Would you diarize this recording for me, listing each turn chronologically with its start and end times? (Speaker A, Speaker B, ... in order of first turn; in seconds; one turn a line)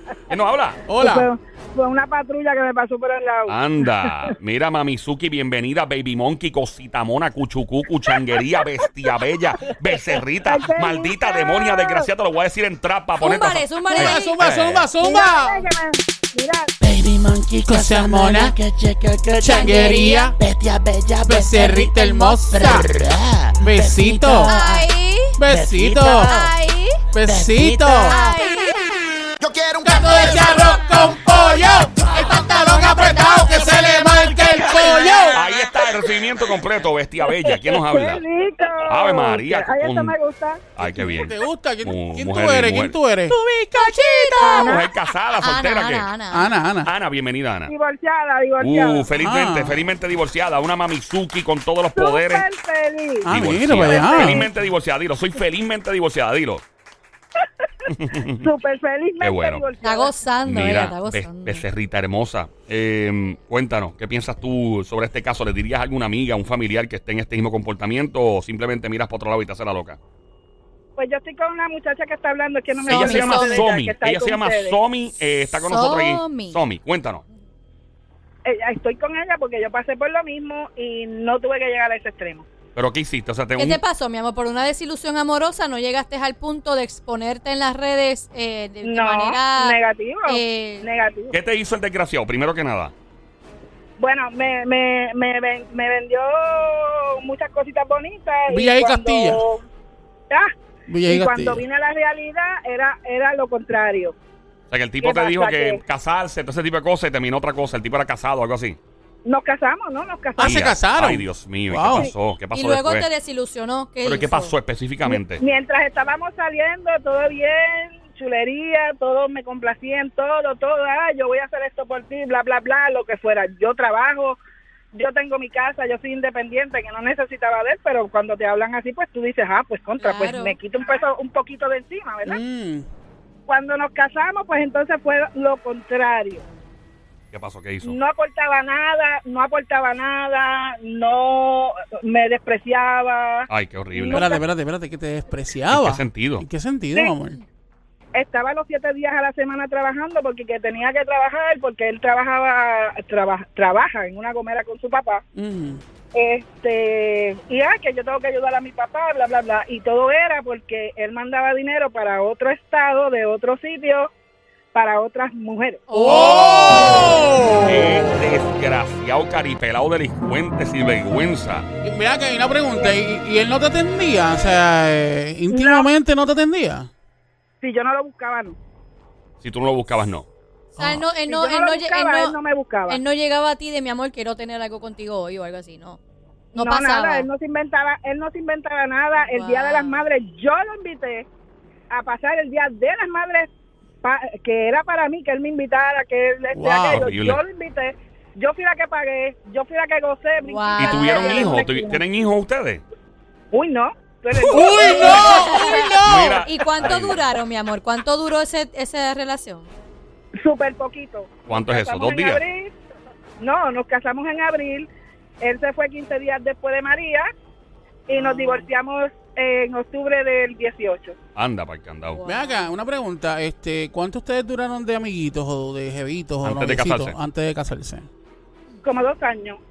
Speaker A: 0.3-0.8
Speaker B: 0.9-1.3
Speaker C: 1.0-3.8
Speaker A: 3.5-14.9
Speaker C: 10.4-12.1
Speaker D: 13.2-14.3
Speaker B: 13.9-15.6
Speaker C: 15.0-16.7
Speaker E: 16.8-24.9
Speaker B: 17.7-18.6
Speaker B: 19.4-20.4
Speaker D: 19.4-20.3
Speaker B: 21.2-22.9
Speaker B: 23.6-24.6
Speaker D: 24.4-25.4
Speaker B: 25.4-26.3
Speaker E: 25.5-26.6
Speaker D: 26.2-27.0
Speaker B: 27.1-28.2
Speaker E: 27.2-28.3
Speaker D: 28.0-28.9
Speaker E: 29.4-35.4
Speaker B: 29.8-35.4
Speaker D: 30.3-30.7
Speaker D: 32.1-34.2
Speaker A: 35.3-38.2
Speaker C: 37.7-40.7
Speaker A: 38.8-40.1
Speaker A: 40.8-43.0
Speaker B: 40.8-43.4
Speaker E: 43.4-44.4
Speaker D: 43.7-44.8
Speaker B: 44.0-44.8
Speaker C: 44.4-44.9
Speaker A: 44.5-46.1
Speaker D: 45.4-46.5
Speaker B: 46.3-46.9
Speaker A: 46.8-47.7
Speaker C: 47.7-49.0
Speaker A: 48.6-52.5
Speaker B: 49.2-49.8
Speaker C: 51.9-53.3
Speaker B: 53.2-54.5
Speaker A: 53.3-56.6
Speaker C: 53.8-54.5
Speaker A: 57.9-58.5
Speaker C: 58.1-60.1
Speaker A: 59.2-59.6
Speaker D: 59.8-61.6
Speaker A: 60.5-70.0
Speaker C: 71.0-74.8
Speaker D: 72.8-73.7
Speaker A: 72.8-77.2
Speaker D: 75.5-76.6
Speaker C: 78.4-82.4
Speaker A: 82.7-83.8
Speaker D: 83.6-90.8
Speaker C: 88.8-91.3
Speaker A: 91.3-92.9
Speaker C: 94.0-99.6
Speaker B: 98.5-99.4
Speaker B: 100.9-101.6
Speaker C: 101.1-104.1
Speaker A: 104.7-108.8
Speaker C: 105.0-105.8
Speaker C: 109.2-110.7
Speaker B: 110.4-112.1
Speaker A: 110.4-113.0
Speaker D: 112.5-114.5
Speaker A: 114.0-115.4
Speaker C: 115.0-124.4
Speaker C: 124.9-132.4
Speaker D: 130.0-130.6
Speaker B: 132.2-132.9
Speaker C: 133.5-136.4
Speaker A: 137.3-137.9
Speaker C: 137.8-144.4
Speaker A: 143.5-144.3
Speaker B: 144.1-147.4
Speaker A: 145.7-146.4
Speaker C: 148.1-155.2
Speaker B: 155.3-155.8
Speaker C: 156.1-164.1
Speaker C: 164.7-166.4
Speaker D: 165.9-167.1
Speaker B: 166.0-168.2
Speaker A: 166.0-171.7
Speaker B: 171.8-176.9
Speaker C: 175.5-175.9
Speaker C: 177.6-178.6
Speaker A: 179.4-180.3
Speaker D: 180.7-182.3
Speaker C: 181.3-183.0
Speaker D: 182.9-186.0
Speaker D: 186.5-187.3
Speaker C: 186.5-191.2
Speaker D: 189.2-190.0
Speaker C: 191.9-193.5
Speaker C: 194.0-202.0
Speaker B: 196.5-197.1
Speaker A: 196.9-197.4
Speaker D: 200.4-201.6
Speaker A: 200.8-202.8
Speaker C: 203.5-206.0
Speaker B: 204.4-206.4
Speaker D: 204.5-209.7
Speaker A: 206.0-207.2
Speaker C: 210.4-212.7
Speaker A: 211.5-212.4
Speaker C: 213.4-214.9
Speaker C: 215.4-217.3
Speaker C: 218.1-221.2
Speaker B: 218.1-218.7
Speaker A: 221.3-222.2
Speaker D: 222.1-222.7
Speaker B: 222.2-228.1
Speaker A: 226.4-227.2
Speaker C: 228.8-229.6